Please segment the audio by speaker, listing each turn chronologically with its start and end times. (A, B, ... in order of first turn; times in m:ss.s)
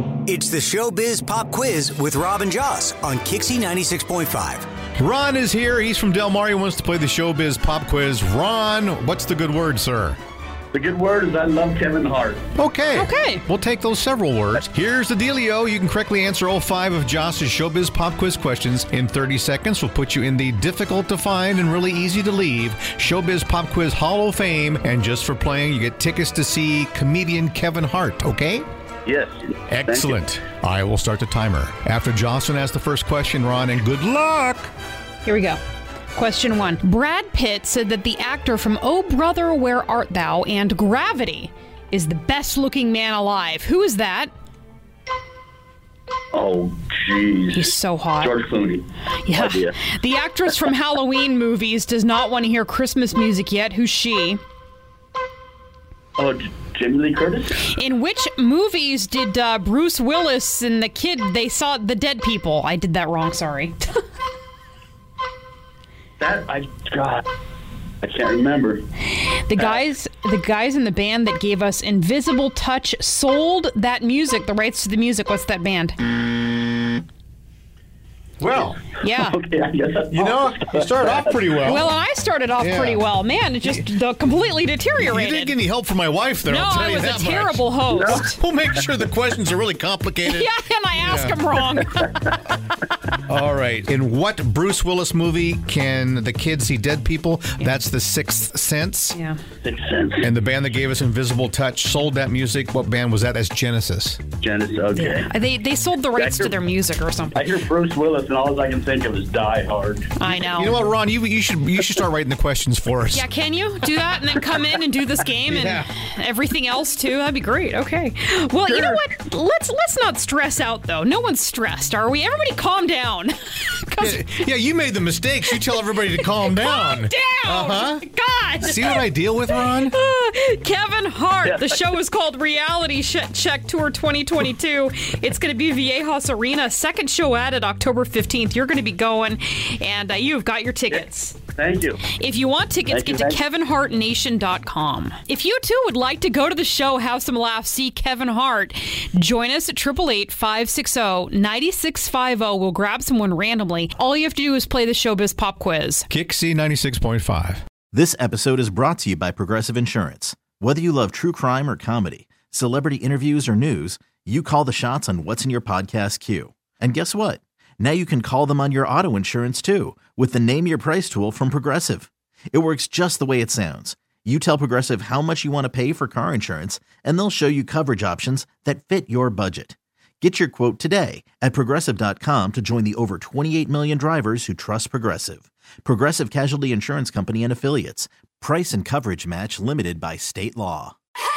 0:00.3-0:04.7 A
0:05.0-0:10.2 B
0:10.7-0:12.4 C
0:12.6-0:28.6 B
0:12.9-0:13.4 D
0:29.0-0:30.2 C
0:29.7-0:34.7 B
0:35.2-0:35.6 D
0:36.1-0:44.3 D
0:46.3-0:49.8 C
0:47.5-0:48.4 D
0:49.2-0:54.4 D
0:56.2-0:57.6 C
0:57.7-1:04.0 D
1:06.2-1:07.2 C
1:08.0-1:08.8 C
1:09.1-1:16.0 D
1:18.4-1:18.8 B
1:19.0-1:19.4 D
1:19.3-1:21.4 C
1:20.1-1:21.9 B
1:21.6-1:25.6 D
1:22.6-1:23.0 B
1:23.6-1:23.9 B
1:25.0-1:31.4 B
1:26.5-1:28.4 D
1:27.9-1:28.3 C
1:30.2-1:32.2 D
1:33.3-1:39.2 B
1:39.1-1:39.4 D
1:39.6-1:40.2 C
1:40.2-1:44.2 B
1:44.4-1:45.3 C
1:45.0-1:47.5 D
1:46.1-1:46.5 C
1:47.3-1:50.1 C
1:50.2-1:50.8 D
1:50.2-1:53.3 B
1:53.1-2:04.4 D
1:55.5-1:55.9 B
1:58.7-1:59.0 B
2:04.0-2:08.1 B
2:05.5-2:21.4 D
2:08.6-2:09.9 B
2:21.6-2:22.0 C
2:22.1-2:36.1 D
2:22.9-2:23.4 C
2:36.1-2:37.6 B
2:37.9-3:11.0 E